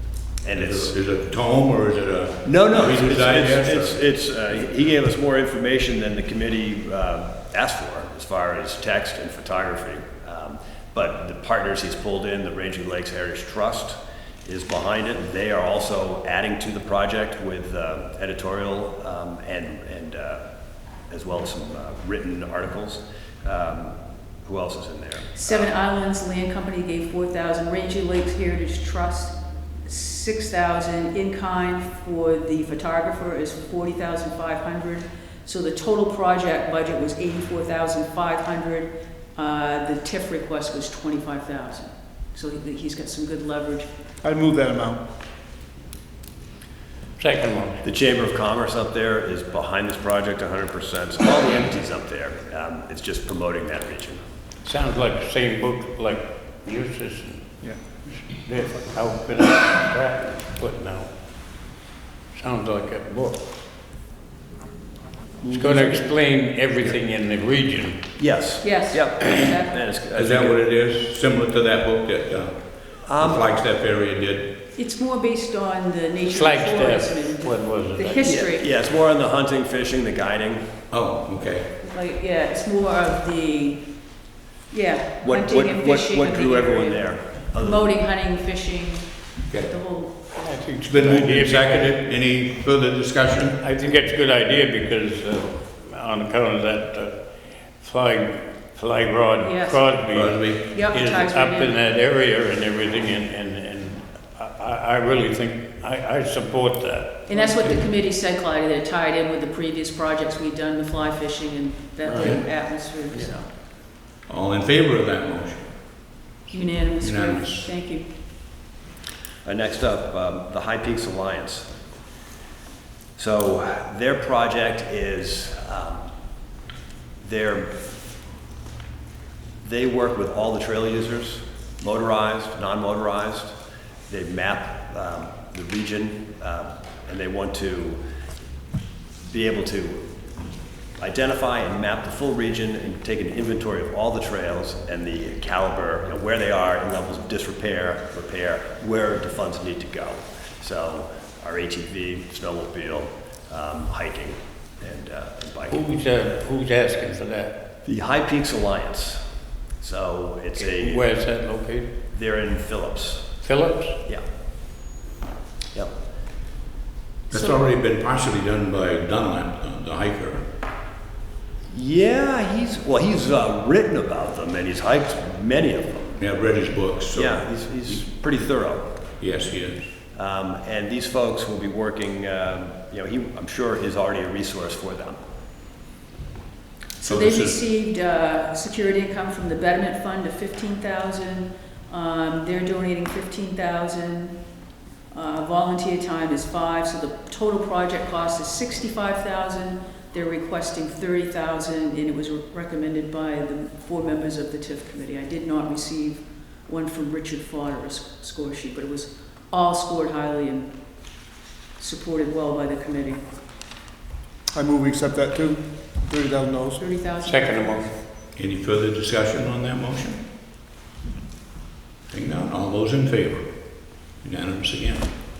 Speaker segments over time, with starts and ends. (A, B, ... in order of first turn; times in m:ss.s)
0:00.4-0:01.0 A
0:00.5-0:03.9 B
0:02.4-0:20.4 A
0:21.1-0:25.7 A
0:25.3-0:43.9 C
0:44.2-0:45.0 D
0:47.2-0:47.8 E
0:47.8-0:54.2 A
0:54.6-1:01.1 E
1:02.3-1:03.4 E
1:05.4-1:06.1 A
1:05.5-1:08.0 E
1:08.2-1:10.6 A
1:08.6-1:09.8 C
1:10.1-1:14.5 B
1:13.0-1:13.5 A
1:14.7-1:18.7 C
1:16.3-1:18.2 E
1:18.2-1:20.6 A
1:20.9-1:21.7 B
1:21.8-1:30.4 C
1:25.2-1:28.0 A
1:30.3-1:32.0 E
1:30.8-1:33.6 B
1:33.6-1:37.2 E
1:37.8-1:47.8 E
1:39.4-1:40.0 C
1:40.1-1:40.6 B
1:40.7-1:41.8 C
1:47.3-1:53.5 C
1:52.0-1:52.4 E
1:54.3-1:56.2 B
1:56.5-1:58.1 C
1:57.0-1:57.7 B
1:59.4-2:01.7 A
2:03.2-2:06.1 A
2:07.2-2:07.7 A
2:09.6-2:13.5 A
2:14.1-2:18.0 A
2:19.2-2:20.1 A
2:21.0-2:35.8 A
2:35.7-2:37.6 E
2:37.8-2:39.2 A
2:39.8-2:41.0 A
2:40.6-2:41.9 E
2:42.1-2:43.3 A
2:43.4-2:44.0 E
2:47.3-2:50.4 B
2:51.7-2:56.2 A
2:56.2-2:58.0 B
2:57.1-2:59.0 A
2:59.2-2:59.8 B
3:00.1-3:05.2 A
3:07.0-3:14.4 C
3:07.0-3:07.6 B
3:15.1-3:33.2 C
3:34.5-3:36.9 D
3:36.8-3:37.9 C
3:37.2-3:37.9 E
3:38.3-3:40.2 B
3:42.1-3:45.2 B